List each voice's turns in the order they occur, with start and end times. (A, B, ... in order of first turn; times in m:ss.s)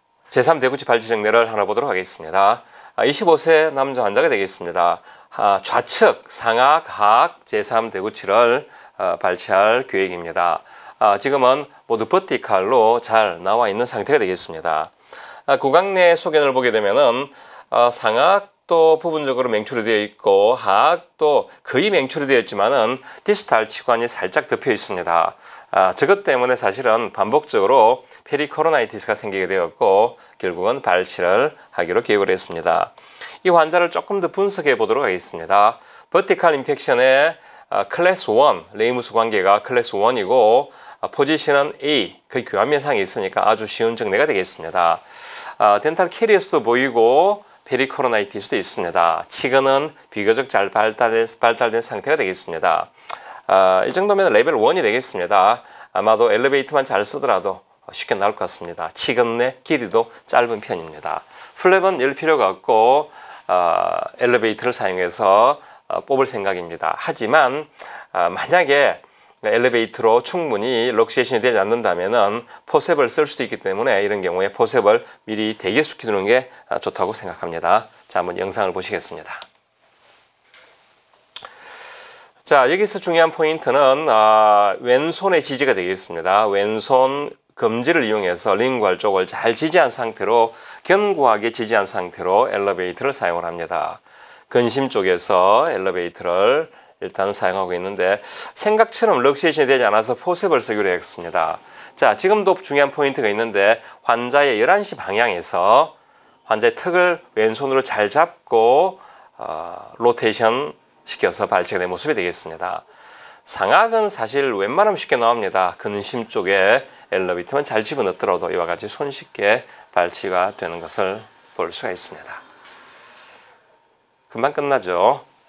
0:00.3-0:14.9 A
0:15.5-0:52.9 A
0:53.5-1:19.4 A
1:22.4-1:45.9 A
1:46.4-1:52.8 A
1:53.4-2:02.4 A
2:04.3-2:05.2 A